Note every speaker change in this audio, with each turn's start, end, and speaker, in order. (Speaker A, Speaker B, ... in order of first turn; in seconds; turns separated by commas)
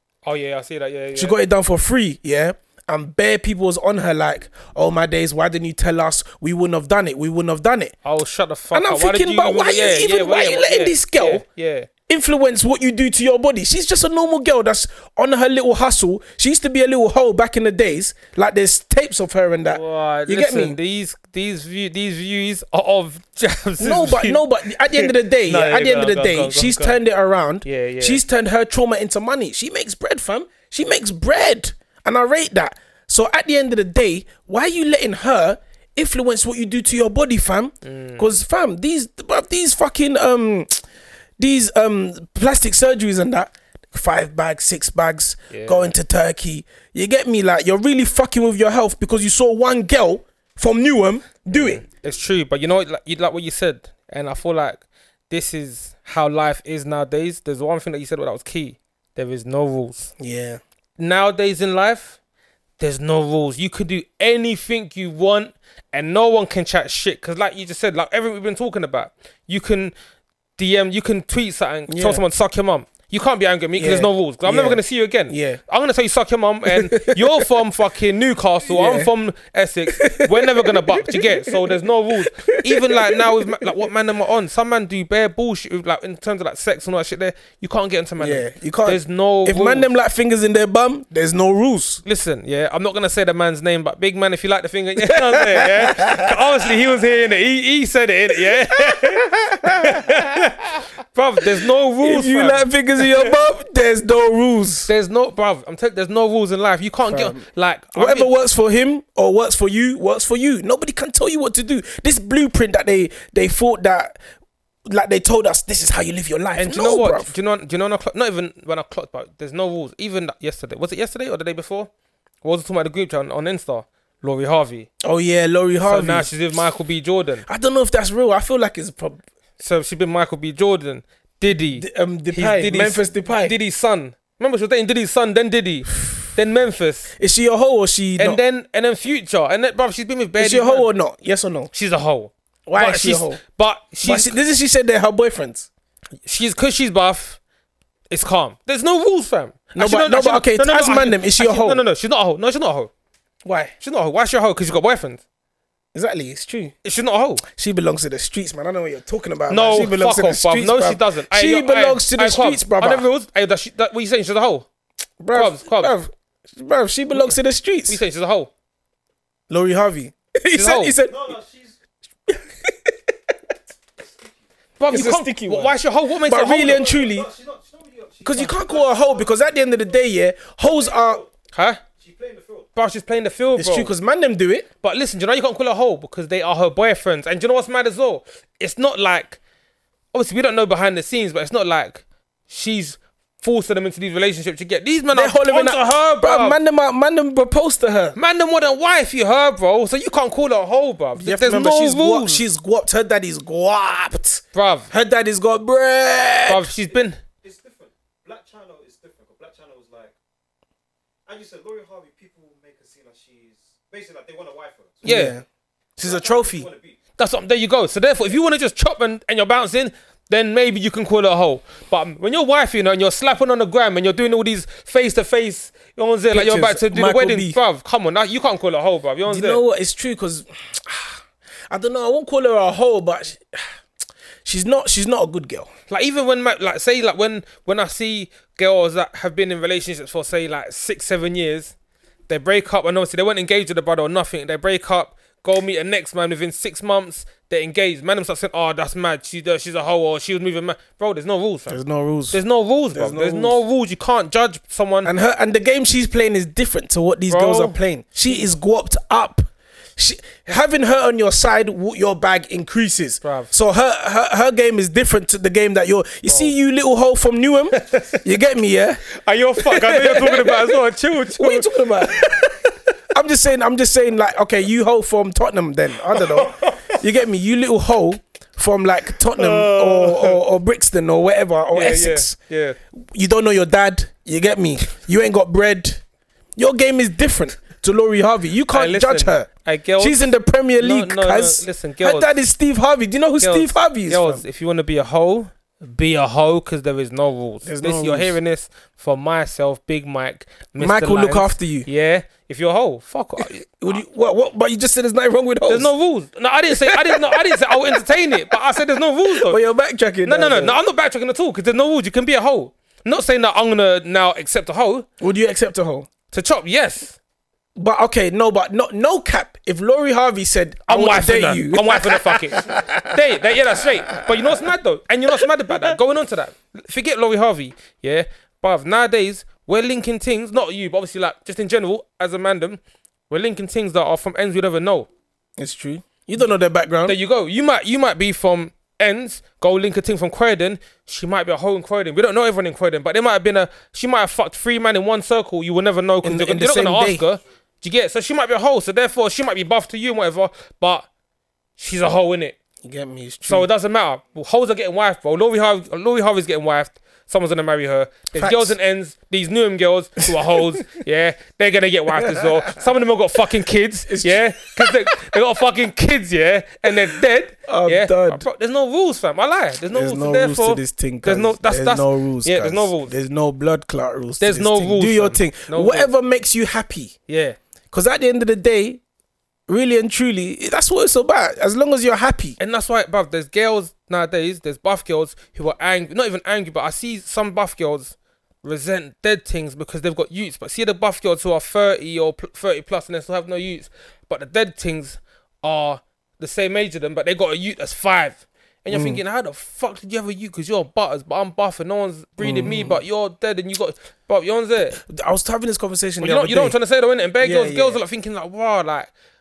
Speaker A: 0.2-1.4, Speaker B: 1.1-7.9, Speaker A: 8.0-11.9, Speaker B: 8.7-11.4, Speaker B: 12.1-20.8, Speaker A: 19.7-27.0, Speaker B: 23.8-40.8, Speaker A: 27.6-28.2, Speaker A: 37.8-38.3, Speaker B: 41.4-51.8, Speaker A: 45.5-45.9, Speaker A: 51.5-60.1, Speaker B: 60.2-60.6, Speaker A: 61.0-62.2, Speaker A: 62.8-69.9, Speaker A: 70.6-89.9, Speaker B: 71.9-72.2, Speaker B: 73.8-75.6, Speaker B: 76.7-77.4, Speaker B: 78.6-79.1, Speaker B: 79.9-81.8, Speaker B: 82.3-83.4, Speaker B: 88.2-92.0, Speaker A: 92.0-103.3, Speaker B: 95.0-96.3, Speaker B: 98.8-100.5, Speaker B: 102.0-104.9, Speaker A: 104.9-108.3, Speaker B: 107.0-114.2, Speaker B: 114.9-117.3, Speaker A: 116.6-121.9, Speaker A: 122.4-124.9, Speaker B: 125.0-126.3, Speaker A: 125.8-127.4, Speaker B: 127.5-129.2, Speaker A: 129.6-137.1, Speaker B: 131.7-133.5, Speaker B: 137.2-138.4, Speaker A: 138.2-140.9, Speaker B: 140.4-141.7, Speaker A: 141.7-144.4, Speaker B: 142.7-143.4, Speaker B: 144.0-145.7, Speaker A: 146.2-147.4, Speaker A: 148.1-152.9, Speaker B: 149.7-151.8, Speaker B: 153.4-153.7, Speaker A: 153.8-155.2, Speaker B: 155.9-156.7, Speaker A: 156.8-157.4, Speaker B: 157.4-163.1, Speaker A: 159.5-164.7, Speaker B: 165.2-168.0, Speaker A: 165.3-165.9, Speaker A: 167.9-168.5, Speaker B: 169.5-171.4, Speaker A: 170.5-170.9, Speaker C: 171.1-171.8, Speaker B: 172.3-173.0, Speaker A: 174.8-177.0, Speaker B: 174.9-177.3, Speaker C: 176.7-179.6, Speaker B: 178.2-181.2, Speaker C: 180.7-181.3, Speaker A: 181.5-181.8, Speaker C: 182.0-182.7, Speaker A: 182.7-183.9, Speaker B: 183.6-184.7, Speaker A: 184.8-189.4, Speaker A: 190.1-196.6, Speaker B: 195.1-198.2, Speaker A: 198.2-202.4, Speaker B: 201.2-206.7, Speaker A: 204.5-204.9, Speaker A: 206.4-207.2, Speaker C: 207.4-210.1, Speaker C: 211.3-215.1, Speaker B: 215.0-215.4, Speaker A: 215.1-215.3, Speaker B: 216.0-216.7, Speaker C: 216.0-217.0, Speaker A: 217.2-229.6, Speaker B: 226.3-227.6, Speaker B: 229.3-233.8, Speaker B: 234.4-235.7, Speaker A: 235.9-241.7, Speaker A: 242.3-251.8, Speaker B: 251.7-252.4, Speaker A: 252.3-255.1, Speaker B: 252.9-253.6, Speaker B: 255.0-269.0, Speaker A: 257.3-258.4, Speaker A: 263.2-263.5, Speaker A: 266.3-266.5, Speaker A: 267.8-268.2, Speaker A: 269.1-272.3, Speaker B: 269.6-272.6, Speaker B: 273.1-282.3, Speaker A: 276.1-277.0, Speaker A: 279.3-280.4, Speaker A: 281.7-282.8, Speaker B: 282.9-286.0, Speaker B: 286.6-289.5, Speaker A: 288.7-292.3, Speaker B: 290.0-294.4, Speaker A: 293.4-303.6, Speaker B: 297.6-298.3, Speaker B: 300.8-301.9, Speaker B: 303.4-305.9, Speaker A: 305.7-309.6, Speaker B: 306.7-308.1, Speaker B: 309.3-310.8, Speaker A: 310.2-315.1, Speaker B: 315.2-316.1, Speaker A: 316.3-317.2, Speaker B: 317.8-323.2, Speaker A: 320.9-335.1, Speaker B: 323.8-324.4, Speaker B: 335.6-337.2, Speaker A: 337.1-351.1, Speaker B: 346.2-347.2, Speaker A: 351.8-352.6, Speaker B: 352.8-353.7, Speaker A: 353.4-373.1, Speaker B: 358.3-358.7, Speaker B: 360.3-360.6, Speaker B: 362.1-362.9, Speaker B: 364.1-365.0, Speaker B: 367.7-368.4, Speaker B: 369.9-377.1, Speaker A: 374.4-376.1, Speaker A: 377.3-377.6, Speaker B: 377.9-379.0, Speaker B: 379.7-382.6, Speaker A: 382.6-405.0, Speaker B: 398.9-399.2, Speaker B: 402.4-403.0, Speaker B: 405.0-406.8, Speaker A: 406.2-409.1, Speaker B: 407.4-408.0